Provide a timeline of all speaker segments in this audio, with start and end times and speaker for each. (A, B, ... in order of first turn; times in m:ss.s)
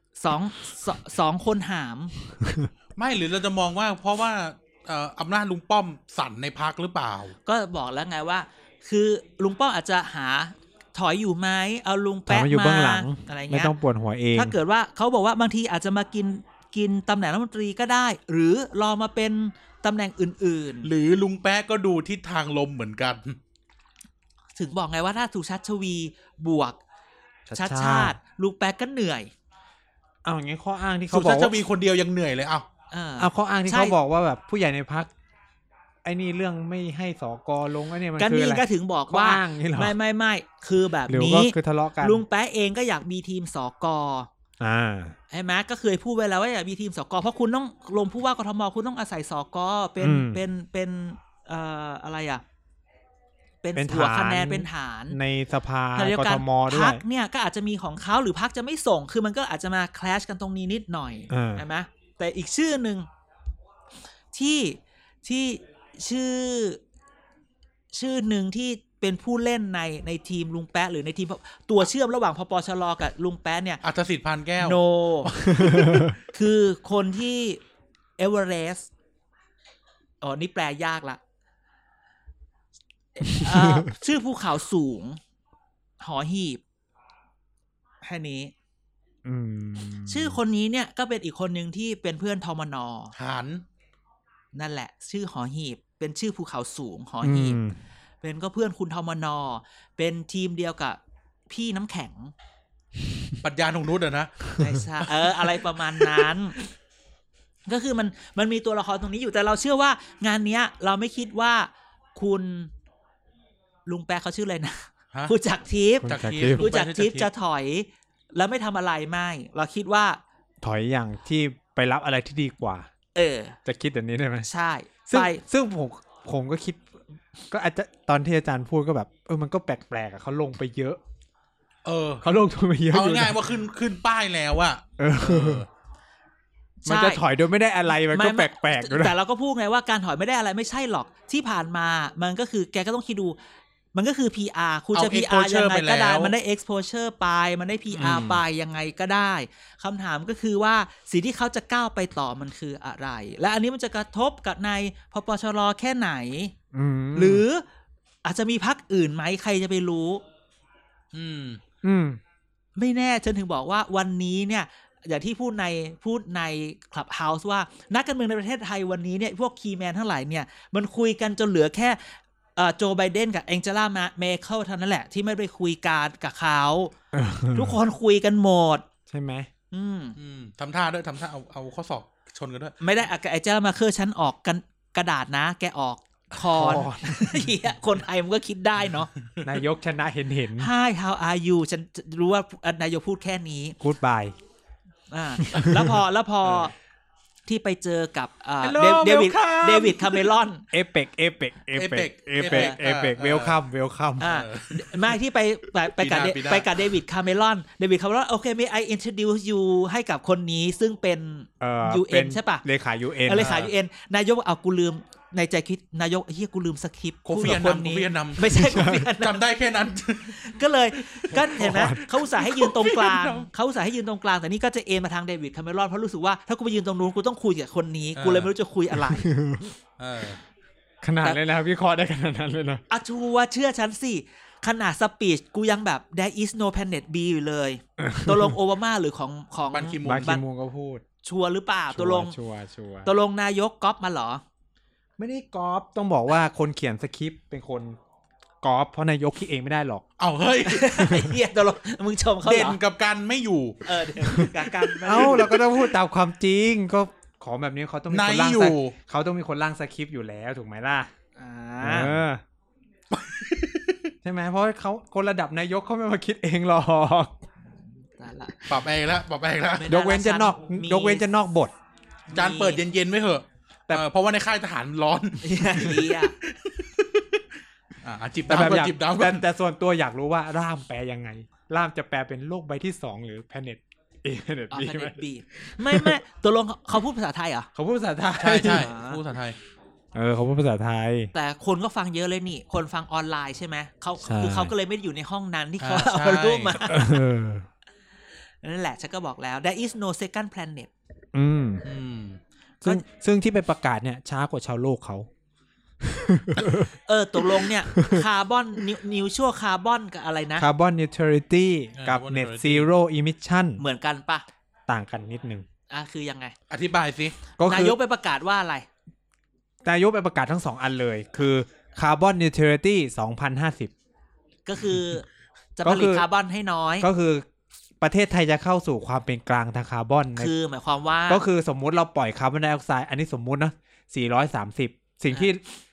0:00.2-0:02.1 A
0:02.3-0:02.7 B
0:03.0-0:07.3 C
0:07.4-0:13.7 A
0:12.3-0:14.6 B
0:14.3-0:20.9 A
0:20.8-0:23.4 C
0:24.6-0:26.8 A
0:27.5-0:28.2 B
0:27.6-0:29.3 A
0:30.2-0:31.6 B
0:31.1-0:32.6 C
0:32.9-0:34.0 A
0:33.2-0:35.1 B
0:36.0-0:40.0 B
0:38.2-0:44.3 A
0:41.1-0:42.2 B
0:44.6-0:45.2 B
0:45.3-0:52.4 A
0:50.0-0:50.4 B
0:53.6-0:55.2 A
0:53.7-0:57.0 B
0:55.9-1:03.1 A
1:01.3-1:01.6 B
1:04.3-1:06.8 A
1:07.9-1:13.8 A
1:13.8-1:16.0 C
1:14.6-1:17.6 A
1:15.6-1:16.1 B
1:18.2-1:18.9 A
1:20.2-1:21.2 A
1:23.2-1:25.2 A
1:23.4-1:23.8 B
1:26.0-1:26.6 A
1:28.0-1:28.5 A
1:29.2-1:30.4 B
1:30.1-1:33.1 A
1:33.2-1:33.6 C
1:34.5-1:37.6 A
1:37.2-1:37.8 B
1:38.2-1:41.0 A
1:41.5-1:42.3 A
1:43.4-1:46.3 C
1:44.6-1:46.6 A
1:47.7-1:52.7 A
1:53.8-2:00.2 A
1:56.0-1:56.7 B
1:56.0-1:57.3 C
2:00.6-2:02.9 B
2:03.1-2:03.6 A
2:03.6-2:04.5 B
2:04.4-2:05.4 A
2:05.1-2:11.0 B
2:11.8-2:12.2 C
2:12.2-2:13.5 B
2:12.9-2:15.7 C
2:15.0-2:15.6 B
2:16.8-2:17.2 A
2:16.8-2:19.2 B
2:18.0-2:23.4 A
2:23.9-2:36.5 A
2:24.9-2:26.3 C
2:27.9-2:28.4 B
2:36.7-2:37.4 B
2:37.1-2:37.6 A
2:38.2-2:40.2 A
2:41.1-2:41.6 C
2:41.8-2:42.2 B
2:42.8-2:56.9 A
2:57.1-2:57.8 B
2:57.5-2:58.8 A
2:59.1-2:59.5 B
2:59.7-3:00.2 A
3:00.2-3:02.7 C
3:02.8-3:09.1 A
3:06.5-3:07.5 B
3:09.2-3:09.5 C
3:09.4-3:10.7 B
3:10.6-3:13.8 A
3:13.8-3:14.3 B
3:15.1-3:16.7 A
3:15.4-3:15.9 B
3:17.5-3:20.6 A
3:18.6-3:20.3 C
3:20.7-3:24.3 B
3:21.7-3:23.6 C
3:22.4-3:22.8 A
3:24.2-3:25.1 C
3:24.2-3:32.6 A
3:26.0-3:26.7 C
3:31.6-3:33.6 B
3:33.2-3:39.4 A
3:33.4-3:33.7 C
3:37.2-3:38.6 C
3:38.5-3:39.1 B
3:39.2-3:43.5 C
3:40.3-3:49.3 A
3:41.4-3:42.1 B
3:48.2-3:48.5 C
3:49.0-3:49.7 B
3:50.0-3:50.4 C
3:51.0-3:52.8 B
3:52.9-4:00.4 A
3:58.0-3:58.6 B
3:59.7-4:00.4 C
4:00.0-4:01.0 B
4:01.2-4:02.4 A
4:01.9-4:03.1 B
4:03.0-4:04.4 A
4:05.2-4:08.0 B
4:08.6-4:10.0 B
4:10.2-4:11.1 C
4:10.6-4:12.8 A
4:12.4-4:15.6 C
4:13.8-4:15.6 A
4:15.0-4:21.1 B
4:18.1-4:19.0 C
4:21.4-4:22.2 A
4:21.8-4:22.4 B
4:23.1-4:24.1 C
4:24.2-4:27.4 B
4:27.8-4:28.7 A
4:28.7-4:29.9 C
4:29.8-4:31.2 A
4:29.9-4:31.7 B
4:32.3-4:32.8 A
4:32.3-4:37.4 C
4:35.4-4:36.3 A
4:38.0-4:39.4 C
4:38.5-4:46.2 B
4:44.7-4:47.7 A
4:47.7-4:48.9 B
4:48.4-4:49.6 C
4:48.6-4:49.2 A
4:50.1-4:51.3 B
4:51.3-4:57.2 A
4:54.2-4:54.7 B
4:55.8-4:56.8 C
4:56.9-4:57.7 B
4:58.6-5:00.9 A
5:01.3-5:01.8 B
5:01.8-5:02.4 C
5:02.8-5:05.3 B
5:06.0-5:06.9 B
5:07.1-5:10.7 A
5:07.5-5:08.2 B
5:10.6-5:13.8 B
5:12.0-5:12.9 C
5:13.8-5:14.4 A
5:14.9-5:15.6 B
5:15.9-5:16.5 A
5:16.7-5:17.4 C
5:17.6-5:18.0 B
5:17.6-5:18.9 A
5:19.8-5:23.9 B
5:24.6-5:25.2 A
5:25.8-5:27.1 A
5:25.8-5:26.2 B
5:27.0-5:27.5 B
5:28.0-5:30.5 B
5:30.4-5:31.4 A
5:31.3-5:35.6 B